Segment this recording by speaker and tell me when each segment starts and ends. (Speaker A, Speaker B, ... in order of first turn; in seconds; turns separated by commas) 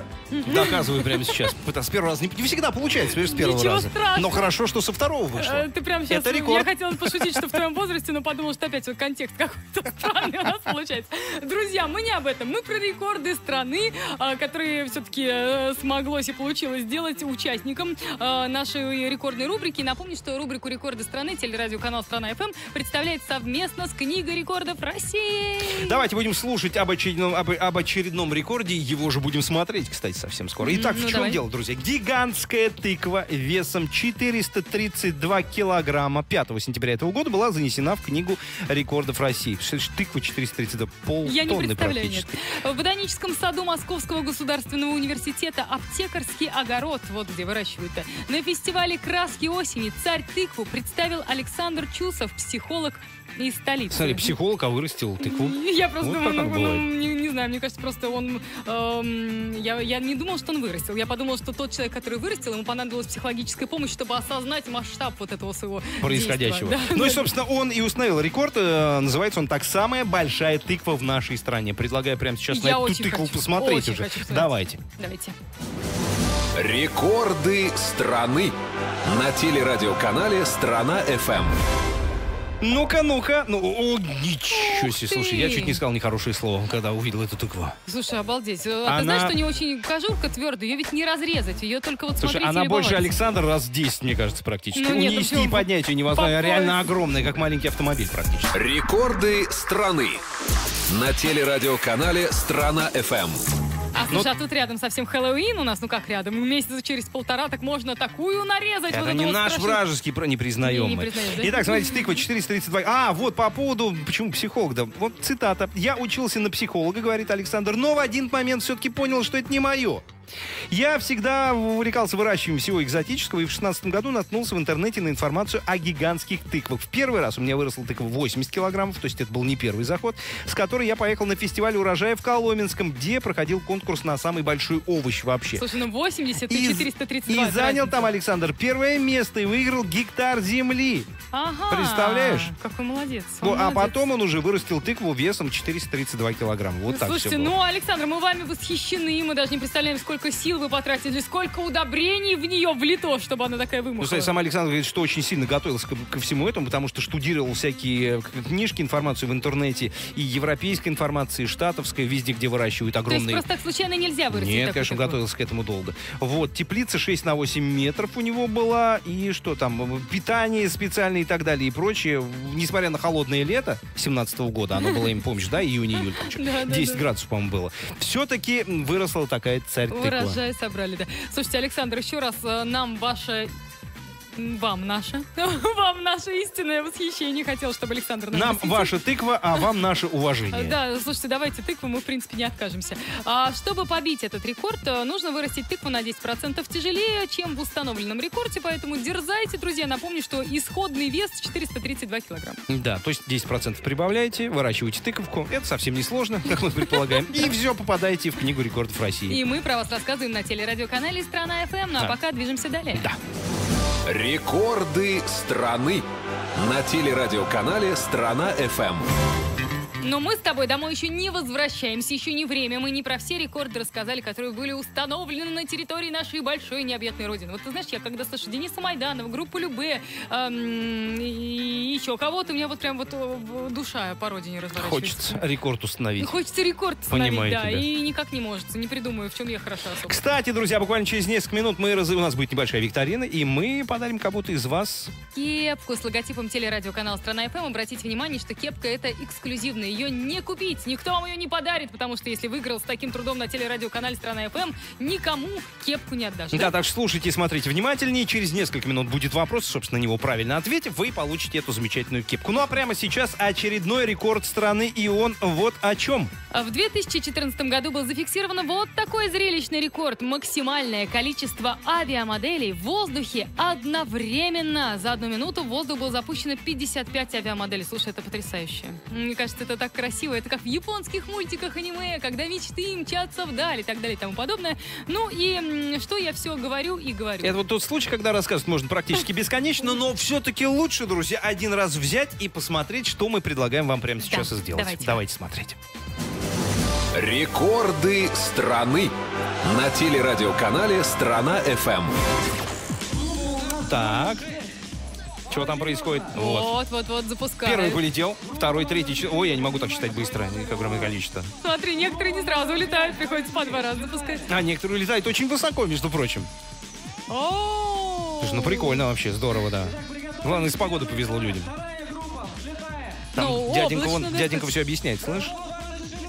Speaker A: 0.3-1.4, Speaker B: 0.4-7.6, Speaker A: 3.2-4.4, Speaker A: 5.4-25.8, Speaker B: 25.6-42.4, Speaker A: 30.6-31.3, Speaker A: 41.2-54.3, Speaker B: 53.9-56.9, Speaker A: 55.2-67.2, Speaker B: 66.0-74.8, Speaker A: 72.5-74.4, Speaker A: 75.0-75.3, Speaker C: 76.6-78.5, Speaker C: 79.0-81.5, Speaker B: 82.6-87.7, Speaker A: 84.5-85.8, Speaker A: 87.8-93.0, Speaker B: 88.8-89.4, Speaker B: 92.2-98.5, Speaker A: 94.7-96.8, Speaker C: 98.5-100.2, Speaker C: 100.9-103.4, Speaker A: 103.9-109.8, Speaker B: 108.9-120.0, Speaker A: 110.6-112.1, Speaker B: 120.7-135.7, Speaker A: 135.6-138.1, Speaker B: 136.5-141.1, Speaker A: 141.3-143.9, Speaker B: 141.7-142.5, Speaker B: 143.4-147.5, Speaker A: 146.9-154.3, Speaker B: 154.0-163.4, Speaker A: 163.1-165.1, Speaker B: 164.3-180.4, Speaker A: 176.4-176.9, Speaker A: 179.9-183.5, Speaker A: 184.3-188.9, Speaker B: 188.3-190.8, Speaker A: 190.5-202.6, Speaker B: 202.7-209.4, Speaker A: 209.3-213.0, Speaker B: 212.9-213.2, Speaker C: 214.1-219.1, Speaker A: 220.0-235.4, Speaker B: 234.7-236.4, Speaker A: 236.2-240.1, Speaker B: 237.1-237.9, Speaker B: 239.9-245.1, Speaker A: 245.3-256.7, Speaker B: 256.5-266.3, Speaker A: 266.5-287.5, Speaker B: 287.4-295.8, Speaker A: 294.3-295.1, Speaker C: 297.1-302.1, Speaker B: 303.7-304.4, Speaker B: 305.5-306.8, Speaker A: 306.4-308.0, Speaker B: 307.6-311.5, Speaker A: 311.6-314.4, Speaker B: 314.5-316.5, Speaker A: 317.3-319.0, Speaker B: 318.4-321.7, Speaker B: 323.3-325.5, Speaker A: 323.4-324.6